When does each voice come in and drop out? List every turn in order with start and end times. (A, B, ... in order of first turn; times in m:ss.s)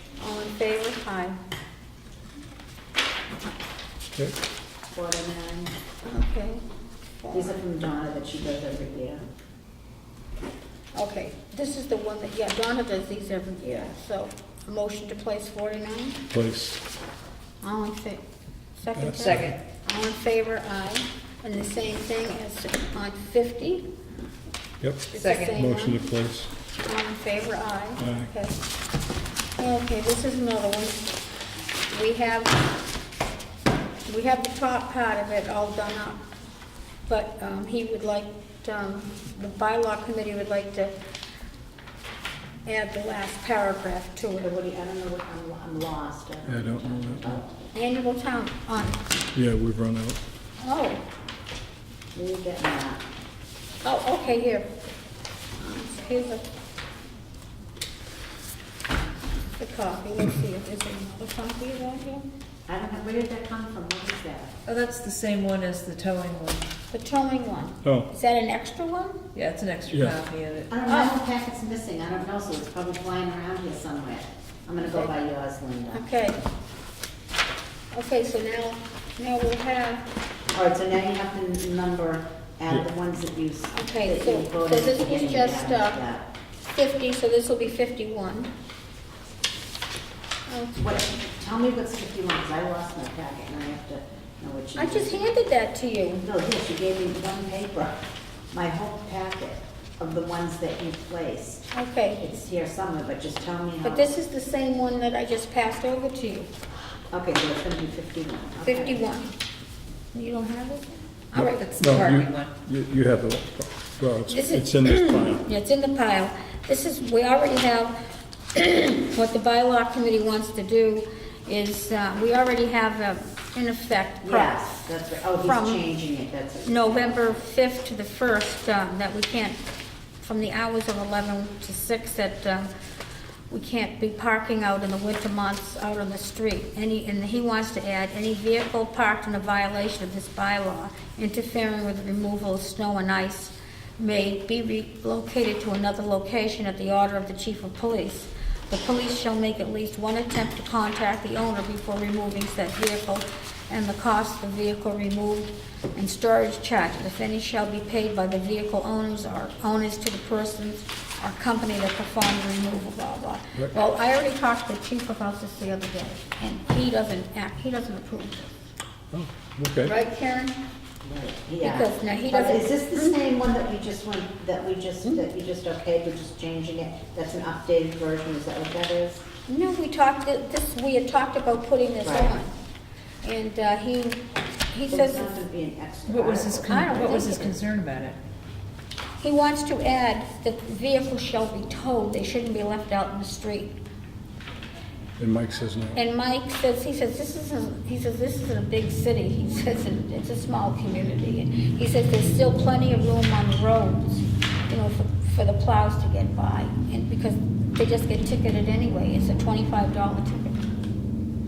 0:00.2-0:01.4 A
0:04.9-0:05.7 B
0:06.0-0:06.6 A
0:07.2-0:07.5 A
0:07.3-0:09.3 B
0:10.9-0:16.2 A
0:13.6-0:13.9 B
0:16.3-0:16.8 C
0:17.6-0:18.2 A
0:18.8-0:23.8 A
0:19.0-0:19.5 C
0:19.2-0:19.6 D
0:24.8-0:26.5 C
0:25.1-0:26.0 A
0:25.2-0:25.6 D
0:26.8-0:28.6 A
0:28.0-0:28.3 C
0:29.6-0:31.2 A
0:31.9-0:32.6 A
0:34.0-0:36.2 A
0:37.1-0:40.9 A
0:42.6-0:44.5 A
0:44.4-0:47.5 B
0:46.5-0:47.4 C
0:47.7-0:49.0 A
0:49.3-0:50.2 C
0:50.6-0:51.0 A
0:52.1-0:53.0 B
0:53.8-0:54.7 A
0:55.6-0:56.4 A
0:59.6-1:02.2 A
1:02.7-1:04.5 B
1:04.6-1:06.7 D
1:06.9-1:09.2 A
1:09.3-1:10.7 D
1:09.9-1:10.2 C
1:10.7-1:16.0 B
1:10.9-1:11.2 A
1:14.8-1:15.2 A
1:15.9-1:16.4 A
1:17.9-1:20.0 A
1:20.5-1:26.3 B
1:23.7-1:26.0 A
1:26.6-1:28.5 A
1:30.5-1:30.9 A
1:30.7-1:35.2 B
1:34.8-1:36.2 A
1:36.2-1:41.7 B
1:41.7-1:42.3 A
1:42.2-1:44.1 B
1:43.8-1:46.5 A
1:47.1-1:49.1 B
1:48.6-1:49.3 A
1:50.1-1:51.6 A
1:51.3-1:55.4 C
1:51.5-1:52.5 D
1:54.3-1:58.0 A
1:58.5-2:04.6 A
2:04.2-2:07.4 B
2:05.4-2:05.8 A
2:06.6-2:09.6 A
2:10.2-2:12.7 A
2:13.5-2:48.6 A
2:49.1-2:49.9 C
2:49.8-2:50.6 A
2:51.0-2:59.3 B
2:51.6-2:53.2 A
2:59.5-3:02.5 A
3:02.0-3:02.4 B
3:03.2-3:05.4 A
3:04.9-3:07.5 B
3:06.1-3:08.2 D
3:06.6-3:07.5 A
3:09.2-3:13.8 A
3:15.2-3:16.0 C
3:15.9-3:30.7 A